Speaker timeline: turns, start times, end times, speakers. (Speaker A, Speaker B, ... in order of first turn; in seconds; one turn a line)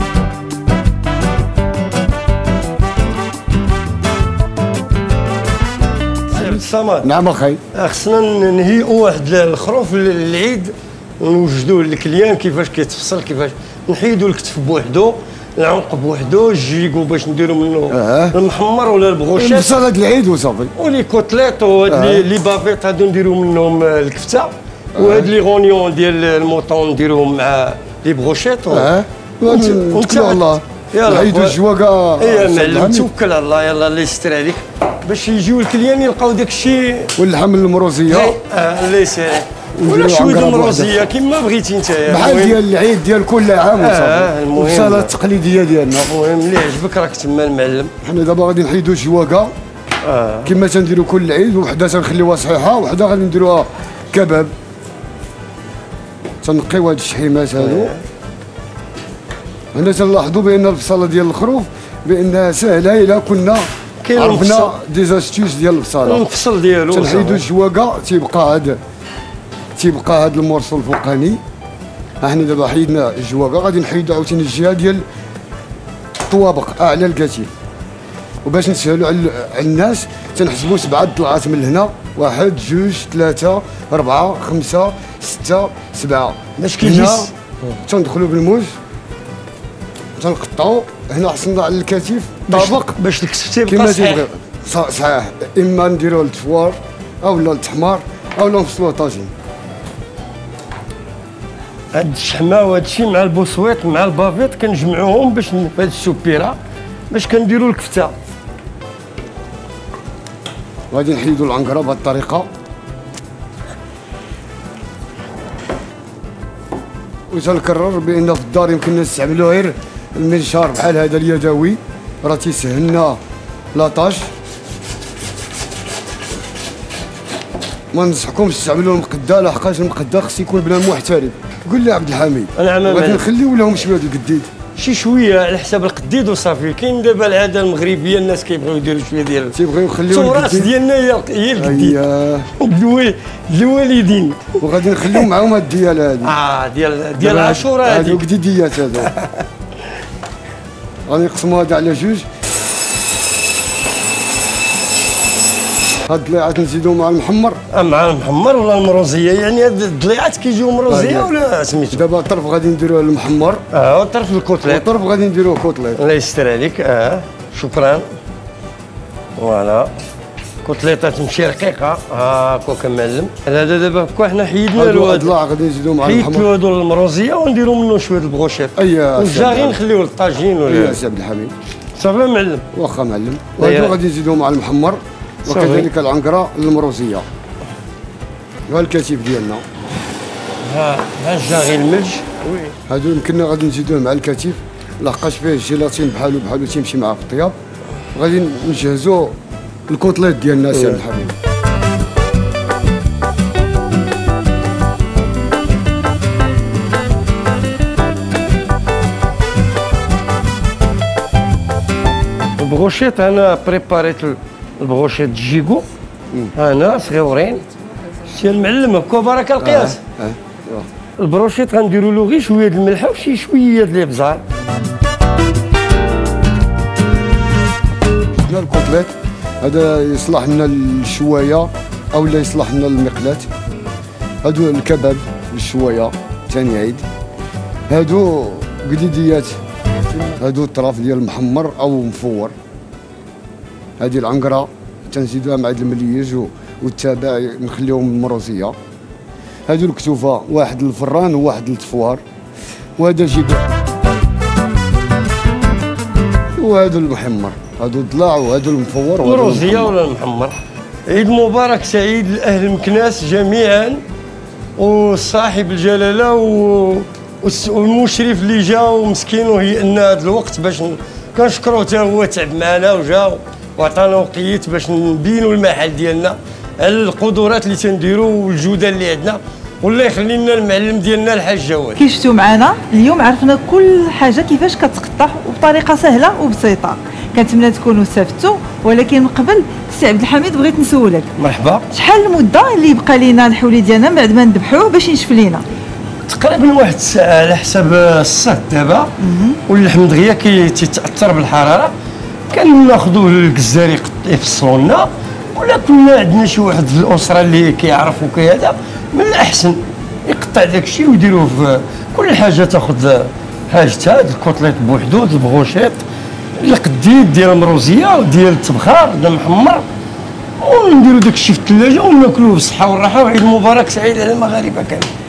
Speaker A: 6.3-7.1
Speaker B: 7.0-7.6
Speaker A: 7.7-19.8
Speaker B: 17.9-18.4
Speaker B: 19.4-20.7
Speaker A: 20.8-28.9
Speaker B: 21.9-22.3
Speaker B: 24.9-25.3
Speaker B: 28.7-33.1
Speaker A: 29.5-31.6
Speaker A: 32.2-37.1
Speaker B: 37.1-38.4
Speaker A: 38.1-42.6
Speaker B: 39.8-41.1
Speaker B: 42.0-46.1
Speaker A: 43.8-45.1
Speaker A: 46.0-47.9
Speaker B: 48.0-49.5
Speaker A: 50.0-50.5
Speaker B: 50.4-54.5
Speaker B: 56.4-57.9
Speaker A: 57.6-58.0
Speaker B: 59.7-66.2
Speaker A: 64.0-64.7
Speaker A: 66.0-67.5
Speaker B: 66.9-68.8
Speaker B: 69.8-71.4
Speaker B: 72.2-75.0
Speaker B: 76.3-77.5
Speaker B: 78.4-87.3
Speaker A: 86.6-87.3
Speaker B: 87.8-88.7
Speaker B: 90.2-93.0
Speaker A: 92.5-94.3
Speaker B: 93.7-99.3
Speaker A: 101.9-106.6
Speaker A: 107.1-108.2
Speaker B: 110.9-112.5
Speaker B: 117.3-123.2
Speaker B: 123.7-124.3
Speaker B: 127.9-134.5
Speaker A: 132.6-133.2
Speaker A: 134.8-139.6
Speaker B: 139.5-140.7
Speaker A: 140.1-142.0
Speaker B: 141.5-142.5
Speaker A: 142.6-144.6
Speaker B: 144.6-146.3
Speaker A: 146.2-148.2
Speaker B: 147.2-149.1
Speaker A: 148.9-149.4
Speaker B: 151.1-152.2
Speaker B: 156.1-157.6
Speaker A: 157.7-162.0
Speaker B: 160.9-161.3
Speaker B: 161.9-163.6
Speaker A: 163.7-164.9
Speaker B: 164.6-166.0
Speaker A: 165.9-168.0
Speaker A: 169.4-169.9
Speaker A: 170.6-175.3
Speaker B: 174.8-176.5
Speaker A: 176.0-181.0
Speaker B: 178.8-179.8
Speaker B: 180.7-181.5
Speaker A: 182.0-182.7
Speaker B: 182.7-187.2
Speaker A: 183.6-184.0
Speaker A: 185.5-185.9
Speaker B: 188.7-189.6
Speaker A: 190.7-192.7
Speaker B: 192.9-197.5
Speaker B: 198.1-199.3
Speaker B: 199.9-201.3
Speaker A: 212.6-215.8
Speaker A: 216.6-217.6
Speaker A: 218.3-220.0
Speaker B: 219.6-220.8
Speaker A: 221.2-224.4
Speaker B: 228.3-233.5
Speaker B: 234.4-237.1
Speaker B: 237.9-239.6
Speaker B: 240.2-242.5
Speaker B: 244.0-248.7
Speaker B: 249.7-252.2
Speaker B: 253.0-253.7
Speaker B: 256.6-259.9
Speaker A: 259.2-260.6
Speaker A: 261.1-264.0
Speaker A: 264.8-282.0
Speaker C: 281.9-291.3
Speaker A: 291.4-291.9
Speaker C: 291.9-295.6
Speaker A: 296.3-299.1
Speaker C: 299.2-299.6
Speaker A: 299.7-301.9
Speaker A: 302.5-316.0
Speaker A: 316.6-319.8
Speaker A: 320.6-325.1